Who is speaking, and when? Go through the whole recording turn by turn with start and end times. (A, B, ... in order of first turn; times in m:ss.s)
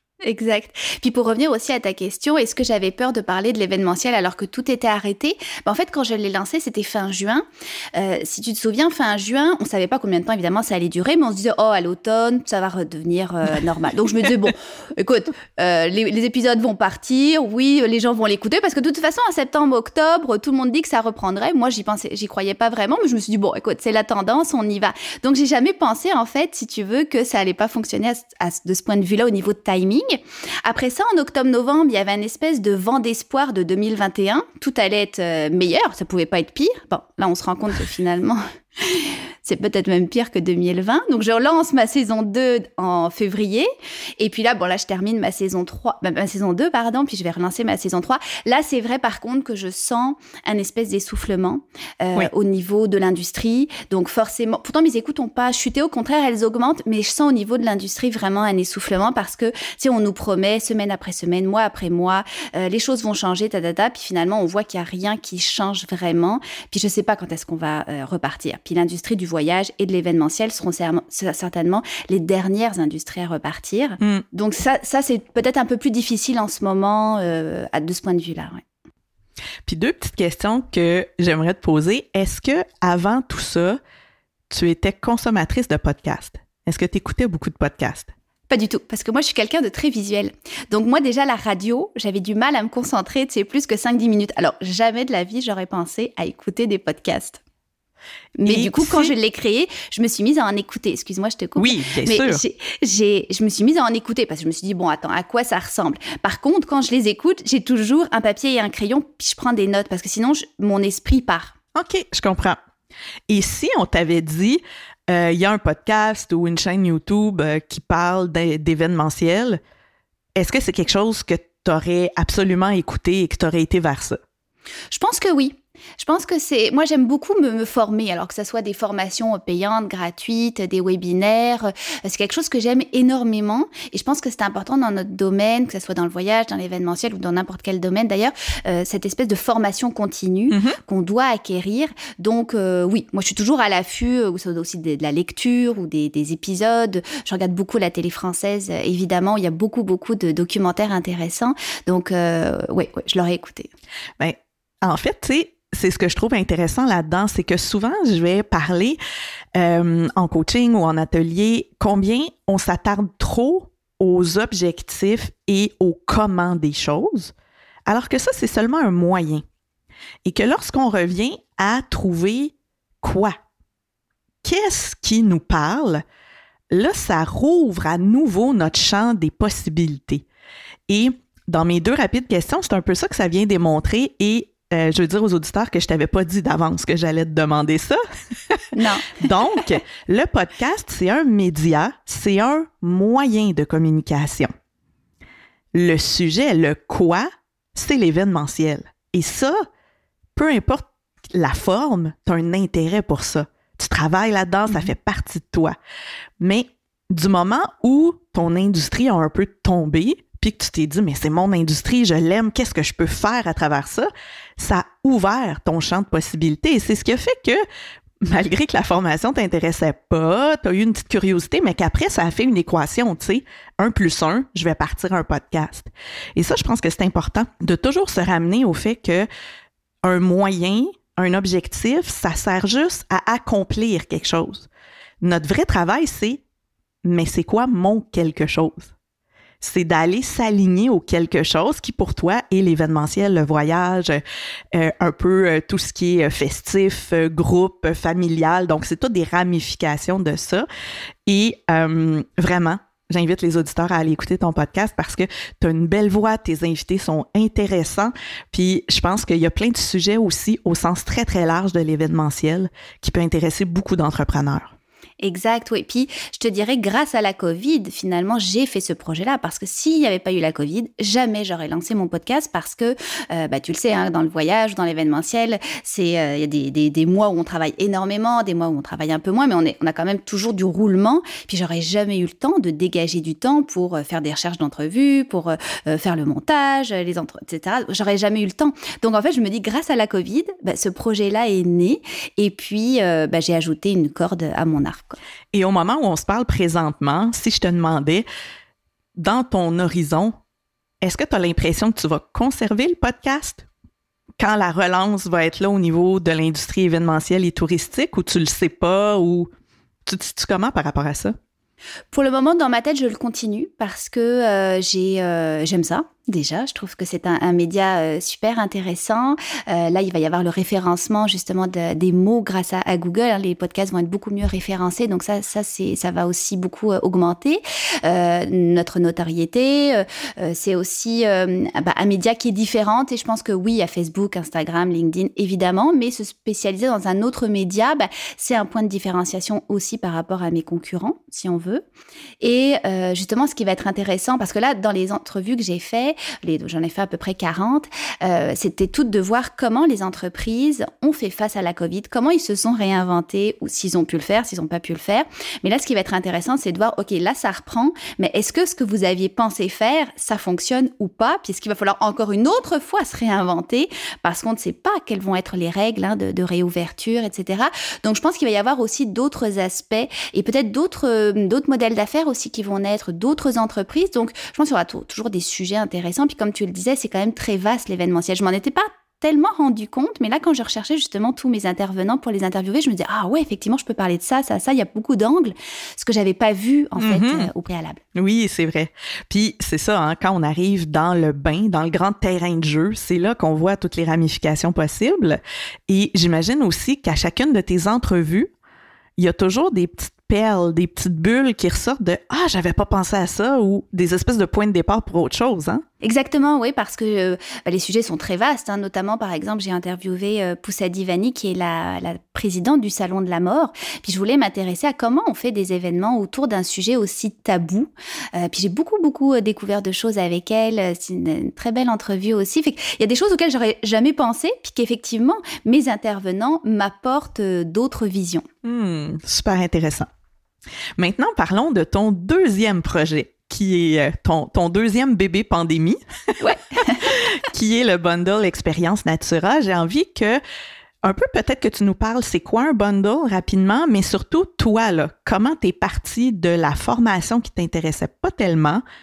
0:00.2-1:18.6 A
1:19.7-1:23.8 B
1:24.5-1:28.1 B
1:28.5-1:37.4 A
1:38.4-1:51.6 A
1:38.4-1:39.1 B
1:41.6-1:42.4 B
1:51.7-1:52.6 B
1:53.3-1:59.6 B
2:00.4-2:04.2 B
2:04.9-2:33.7 A
2:20.5-2:20.8 B
2:34.2-2:39.0 B
2:39.6-2:47.3 B
2:47.9-2:49.4 B
2:50.2-2:53.4 B
2:54.4-2:56.0 B
2:56.7-3:00.2 B
3:00.9-3:08.0 B
3:08.8-3:09.2 A
3:09.2-3:14.5 B
3:15.7-3:19.6 B
3:20.4-3:25.8 B
3:26.4-3:37.6 B
3:38.2-3:49.3 B
3:50.0-3:54.7 B
3:55.2-3:56.4 B
3:57.0-3:58.9 B
3:59.6-4:04.2 B
4:04.7-4:10.7 B
4:11.3-4:24.7 B
4:25.2-4:55.2 A
4:55.5-4:58.2 B
4:59.2-5:00.4 B
5:01.0-5:03.7 B
5:04.4-5:09.5 B
5:10.1-5:11.4 B
5:12.1-5:41.8 A
5:42.4-6:28.0 A
6:27.0-6:27.5 B
6:28.2-6:38.5 B
6:39.2-6:45.8 B
6:46.0-7:08.4 A
7:08.6-7:10.1 B
7:11.0-7:16.0 B
7:16.4-7:17.1 A
7:17.0-7:20.4 B
7:21.0-7:28.8 B